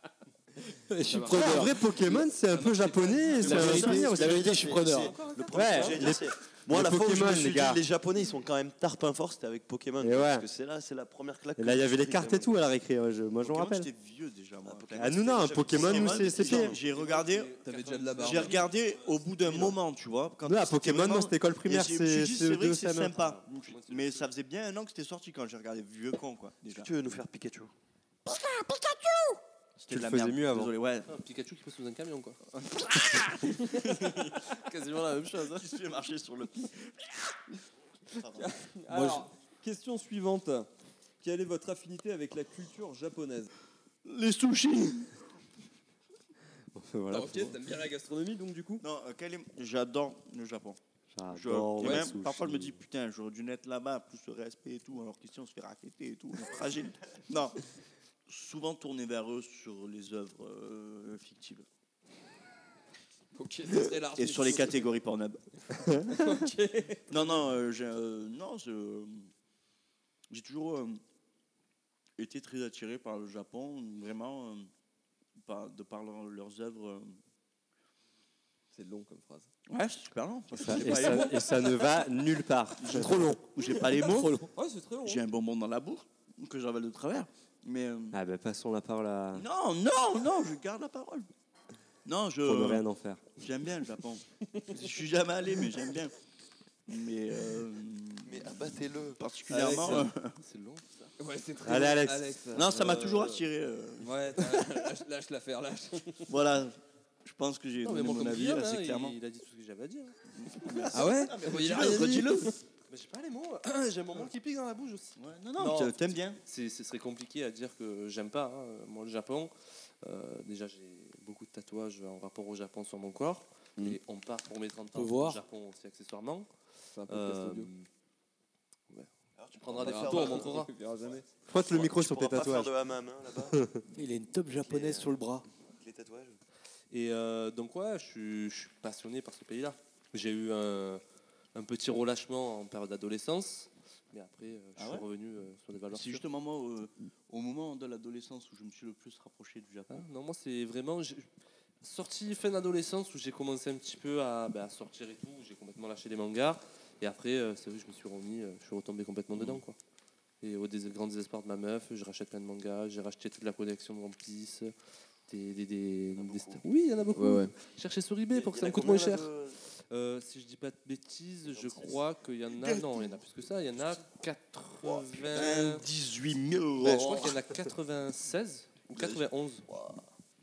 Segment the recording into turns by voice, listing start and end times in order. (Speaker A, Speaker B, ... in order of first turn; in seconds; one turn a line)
Speaker A: 0.9-1.8
Speaker B: 1.1-1.7
Speaker C: 1.3-4.8
Speaker D: 3.3-12.5
Speaker A: 3.4-5.1
Speaker B: 5.0-6.1
Speaker C: 5.5-7.8
Speaker C: 10.0-10.5
Speaker C: 11.6-13.9
Speaker E: 13.4-17.5
Speaker D: 14.6-16.8
Speaker C: 15.0-16.8
Speaker F: 16.7-18.7
Speaker B: 17.6-18.7
Speaker E: 18.2-26.9
Speaker C: 20.5-23.2
Speaker F: 23.2-24.3
Speaker D: 26.6-27.7
Speaker C: 28.3-29.1
Speaker E: 29.8-31.1
Speaker C: 29.9-30.7
Speaker F: 31.1-32.4
Speaker E: 32.6-34.4
Speaker F: 33.4-35.8
Speaker E: 35.5-37.1
Speaker E: 38.1-38.5
Speaker B: 38.2-40.7
Speaker A: 38.9-39.3
Speaker B: 41.2-43.5
Speaker E: 44.0-45.1
Speaker C: 46.7-47.6
Speaker B: 47.1-48.8
Speaker E: 48.8-50.8
Speaker C: 51.1-52.8
Speaker E: 51.3-57.6
Speaker E: 58.3-61.6
Speaker B: 63.3-64.9
Speaker E: 64.1-66.4
Speaker B: 66.0-67.4
Speaker E: 67.1-69.3
Speaker E: 70.3-71.0
Speaker E: 72.2-74.7
Speaker E: 75.4-77.2
Speaker B: 78.7-79.5
Speaker E: 79.7-81.9
Speaker C: 80.5-83.3
Speaker E: 82.8-84.4
Speaker A: 83.0-84.5
Speaker B: 84.5-85.2
Speaker E: 85.0-88.2
Speaker C: 88.1-89.5
Speaker E: 89.4-91.3
Speaker E: 92.0-92.8
Speaker C: 92.4-93.2
Speaker E: 93.4-96.2
Speaker B: 94.4-94.8
Speaker E: 96.9-100.4
Speaker D: 98.2-99.2
Speaker B: 99.5-100.1
Speaker F: 100.4-101.2
Speaker B: 101.2-103.5
Speaker C: 101.6-102.2
Speaker E: 102.5-104.6
Speaker B: 104.0-106.3
Speaker E: 106.3-109.2
Speaker F: 107.8-110.9
Speaker E: 110.4-112.6
Speaker B: 110.9-112.6
Speaker F: 112.9-126.5
Speaker E: 115.2-116.4
Speaker A: 125.0-125.4
Speaker B: 126.9-127.7
Speaker F: 127.1-127.7
Speaker F: 128.9-130.7
Speaker D: 129.4-130.7
Speaker B: 129.8-131.3
Speaker C: 131.5-132.7
Speaker D: 131.5-133.7
Speaker C: 133.5-133.8
Speaker A: 133.9-135.4
Speaker D: 134.6-135.1
Speaker D: 135.7-136.4
Speaker F: 136.9-141.0
Speaker F: 141.6-146.2
Speaker E: 144.8-145.1
Speaker E: 145.9-150.1
Speaker F: 149.9-151.3
Speaker F: 151.8-159.8
Speaker D: 159.3-159.6
Speaker F: 160.4-164.7
Speaker F: 165.3-169.3
Speaker D: 166.2-166.6
Speaker B: 167.2-167.5
Speaker D: 168.3-169.6
Speaker F: 169.9-175.9
Speaker D: 171.5-171.9
Speaker E: 172.5-173.2
Speaker D: 174.8-175.3
Speaker E: 175.3-177.4
Speaker F: 176.8-179.6
Speaker D: 178.9-180.1